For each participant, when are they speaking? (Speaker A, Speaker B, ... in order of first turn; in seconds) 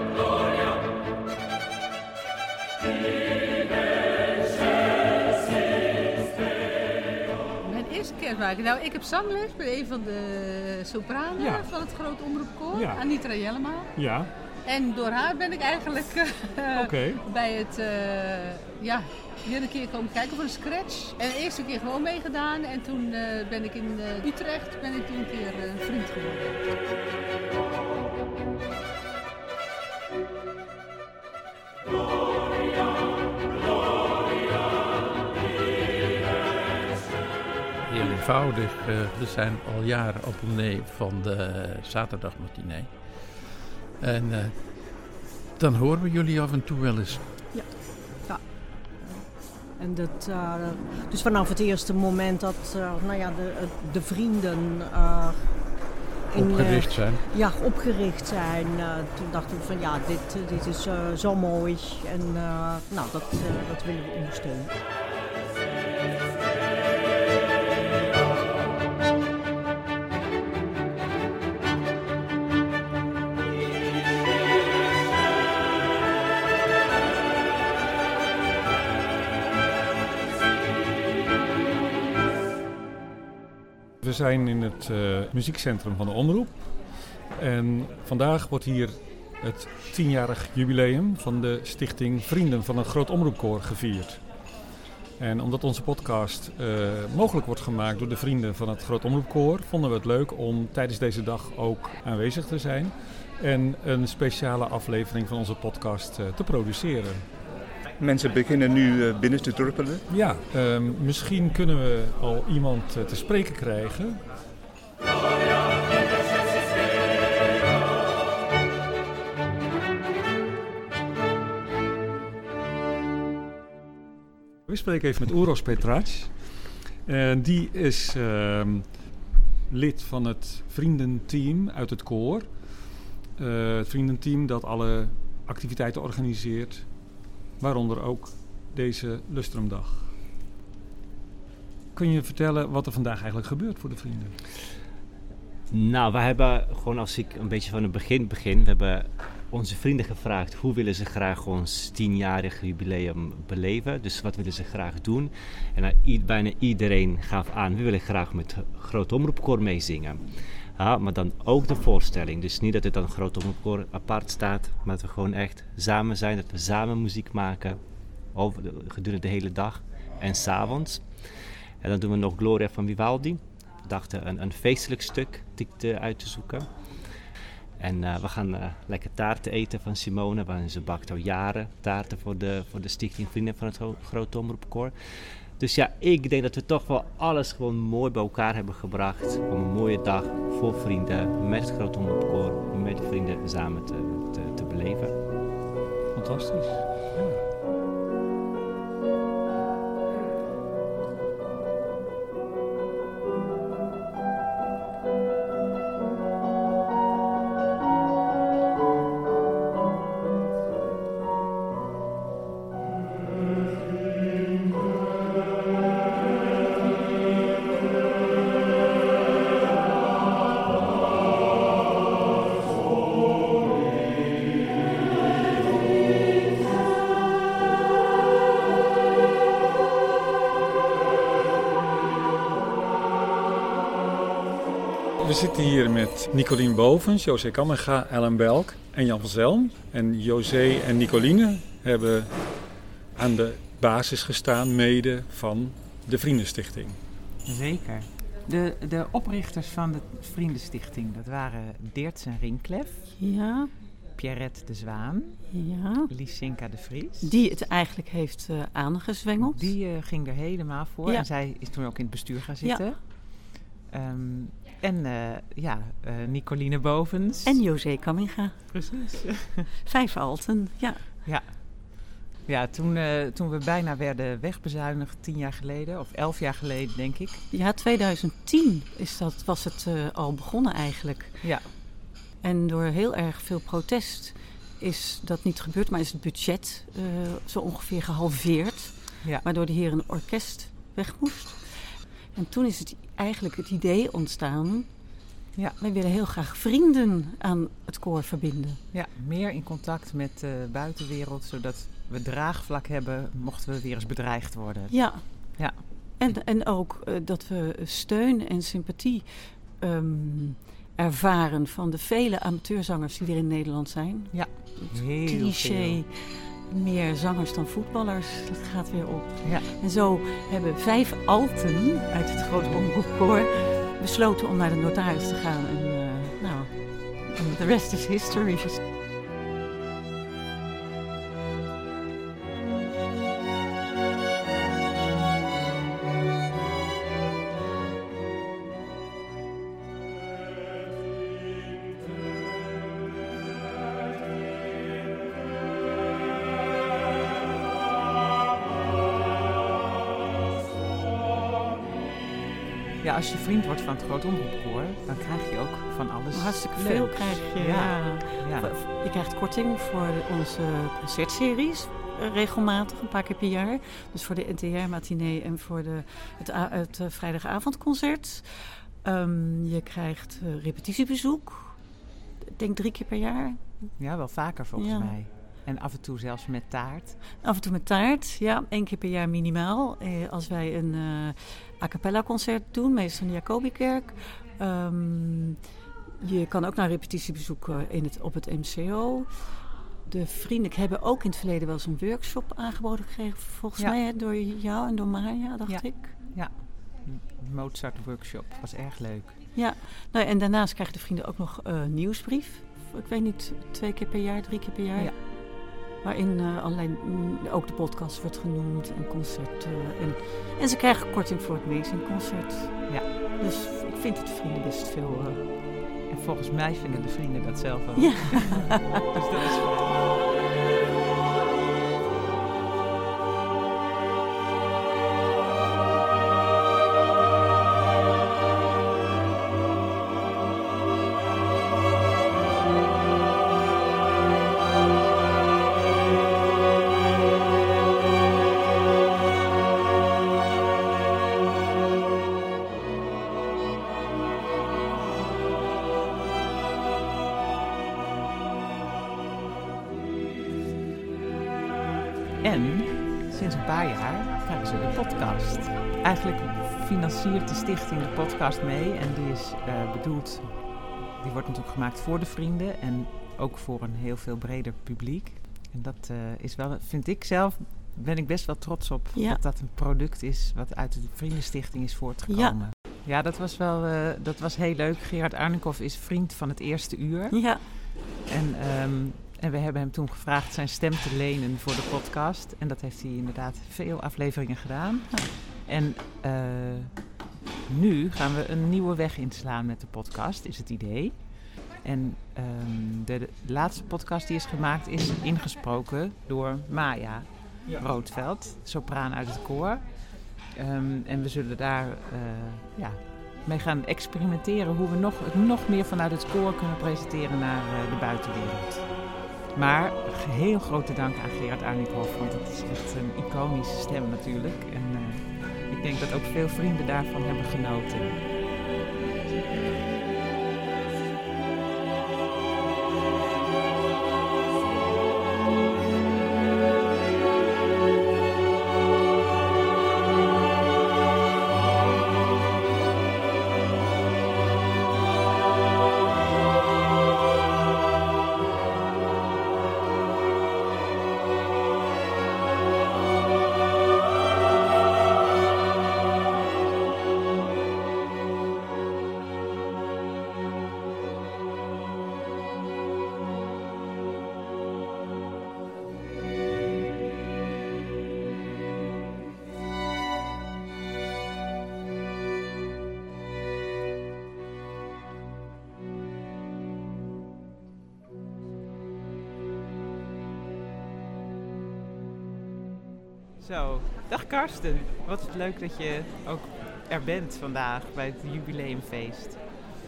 Speaker A: 7.6-13.9, 14.7-26.6
Speaker B: 11.4-11.7, 12.7-13.0, 13.9-14.3, 16.8-17.2, 84.0-94.5, 95.2-107.3, 110.1-114.3, 124.7-140.2, 141.9-144.4, 196.1-197.4, 235.2-247.0
Speaker C: 37.8-47.6, 56.3-57.2
Speaker D: 47.5-64.8
Speaker E: 108.0-110.0
Speaker F: 145.7-171.3, 171.8-195.2
Speaker G: 247.4-253.1, 254.0-255.4, 256.1-257.3, 259.4-267.6, 268.7-269.7, 271.2-277.4, 281.4-281.7, 298.9-306.4, 314.3-316.0, 319.4-319.7, 322.6-322.9, 353.0-358.7, 374.0-377.2, 395.6-399.4, 405.0-405.3, 416.1-420.1, 452.4-518.3, 573.4-579.7
Speaker H: 253.2-253.9, 255.5-256.1, 257.2-259.8, 261.0-261.3, 262.6-262.9, 267.4-269.1, 269.9-271.2, 277.5-295.2, 295.8-298.8, 304.9-328.8, 356.3-373.8, 374.8-375.2, 377.3-385.6, 386.2-396.3, 399.5-415.6, 418.0-419.1, 469.1-469.4, 472.3-472.7, 477.3-477.7, 485.1-485.4